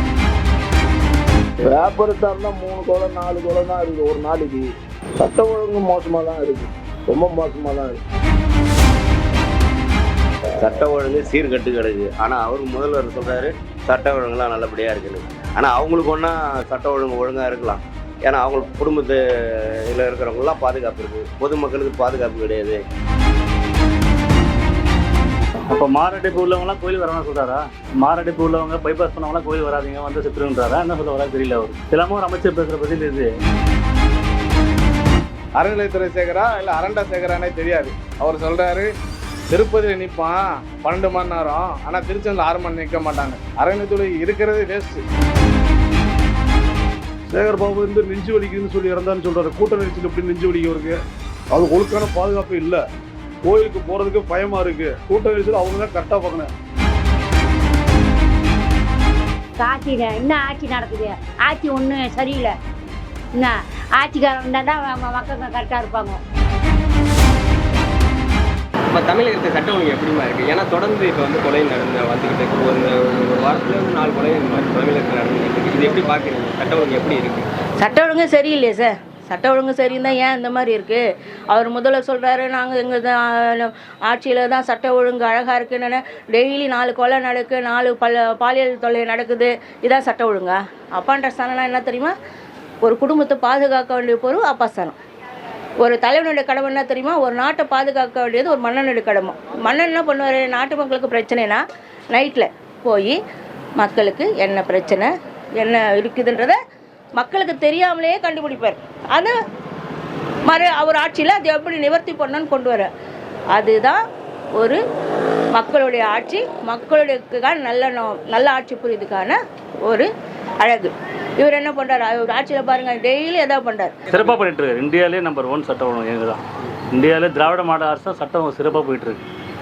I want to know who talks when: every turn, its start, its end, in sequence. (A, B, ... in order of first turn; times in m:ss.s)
0:01.6-0:04.7 A
0:05.2-0:08.0 A
0:10.6-0:22.8 B
0:25.7-0:33.3 C
0:35.6-0:38.9 D
0:39.5-0:45.0 D
0:47.3-0:51.0 E
0:51.5-0:52.8 E
0:53.4-0:56.5 E
0:59.6-1:02.5 F
1:03.4-1:06.2 F
1:08.9-1:17.5 G
1:17.8-1:32.1 H
1:32.8-1:35.0 H
1:35.8-1:43.2 H
1:43.8-1:46.6 H
1:47.2-1:49.3 H
1:50.5-1:52.9 H
1:53.5-1:54.0 H
1:55.5-2:00.1 H
2:00.6-2:03.9 H
2:04.1-2:09.2 C